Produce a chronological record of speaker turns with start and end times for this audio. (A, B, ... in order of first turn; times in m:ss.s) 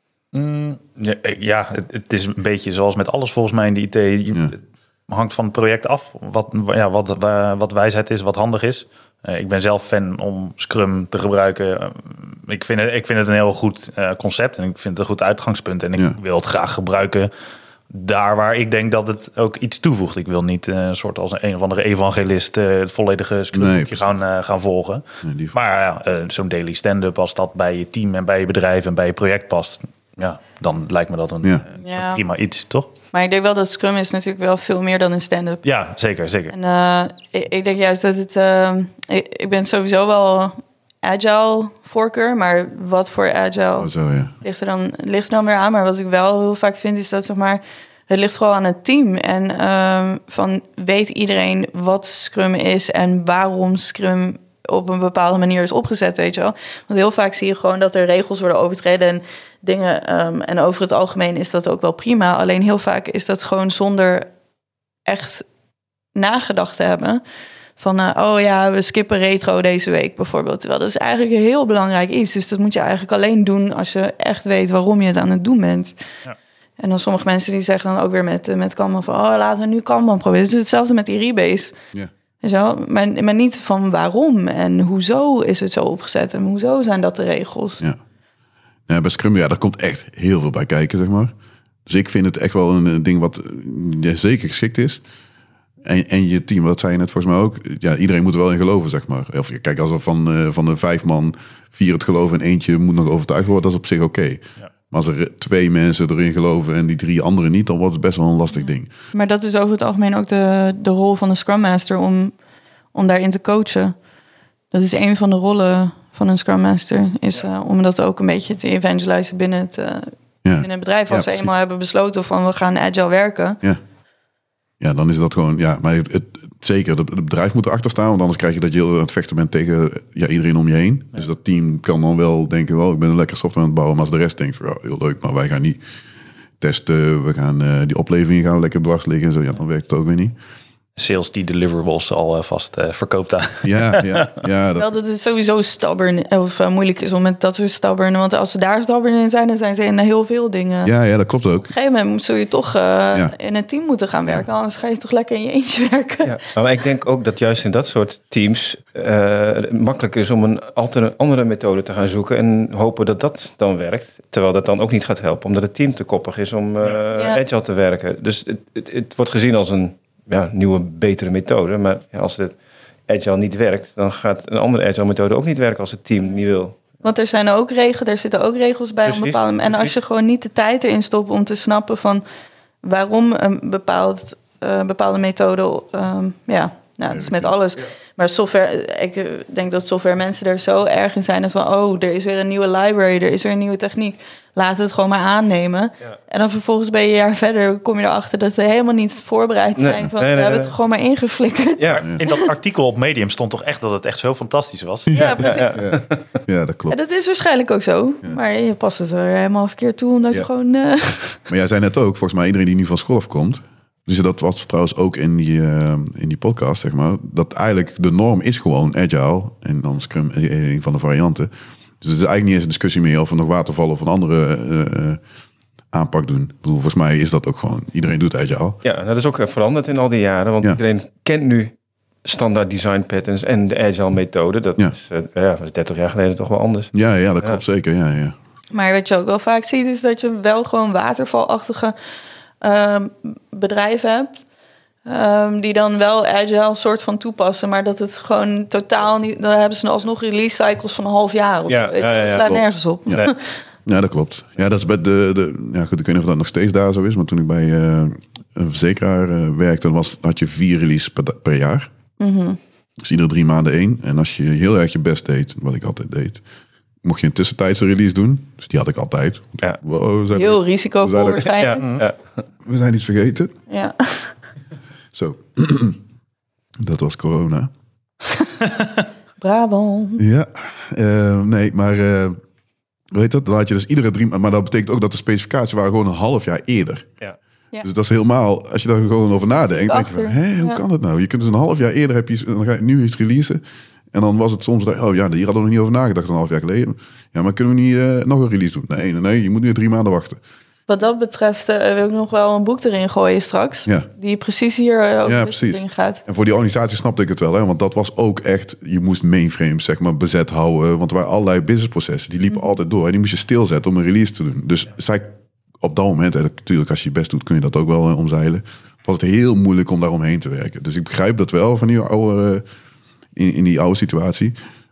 0:00.3-0:04.6 A
0:05.1-0:17.3 A
0:17.9-0:32.9 A
0:23.5-0:24.1 B
0:25.2-0:25.6 B
0:31.8-0:32.2 C
0:33.1-0:35.6 C
0:35.6-0:36.5 A
0:36.5-0:43.9 C
0:43.8-0:44.3 B
0:44.4-1:04.3 C
1:05.1-1:05.4 C
1:06.2-1:07.2 C
1:07.8-1:16.0 C
1:16.8-1:21.8 C
1:22.4-1:27.8 C
1:28.9-1:31.3 B
1:31.9-1:35.0 B
1:35.8-1:48.9 B
1:49.1-1:52.3 C
1:52.9-1:54.0 C
1:54.7-2:03.6 C
2:00.4-2:01.5 B
2:04.8-2:15.8 B
2:16.6-2:20.4 B
2:21.0-2:24.3 A
2:23.6-2:24.9 B
2:24.8-2:30.9 C
2:30.8-2:31.7 B
2:31.6-2:36.3 C
2:36.2-2:52.6 D
2:47.2-2:47.4 C
2:53.1-2:56.8 D
2:57.0-3:02.2 C
2:59.0-2:59.9 D
3:02.8-3:22.5 C
3:07.1-3:07.6 B
3:19.8-3:20.8 D
3:21.8-3:22.1 D
3:22.0-3:25.3 A
3:25.1-3:25.9 C
3:25.1-3:27.0 B
3:25.1-3:26.2 D
3:26.9-3:31.4 C
3:31.5-3:41.5 B
3:42.0-3:45.2 B
3:45.9-3:48.8 B
3:48.8-3:51.7 D
3:52.2-3:56.9 D
3:56.9-3:58.4 B
3:58.7-4:02.0 C
4:02.6-4:04.4 C
4:05.1-4:13.4 C
4:11.7-4:13.3 D
4:12.4-4:13.3 B
4:13.9-4:21.9 B
4:22.2-4:22.6 C
4:23.0-4:26.4 B
4:27.0-4:31.6 B
4:30.3-4:31.8 C
4:31.5-4:32.2 D
4:32.6-4:33.5 B
4:33.7-4:34.3 C
4:35.1-4:36.0 B
4:36.8-4:37.7 B
4:39.4-4:40.2 C
4:40.2-4:42.4 B
4:43.1-4:47.1 B
4:47.8-4:53.6 B
4:49.8-4:50.8 C
4:54.1-5:00.4 B
5:00.9-5:06.2 C
5:05.2-5:22.6 B
5:23.4-5:24.6 B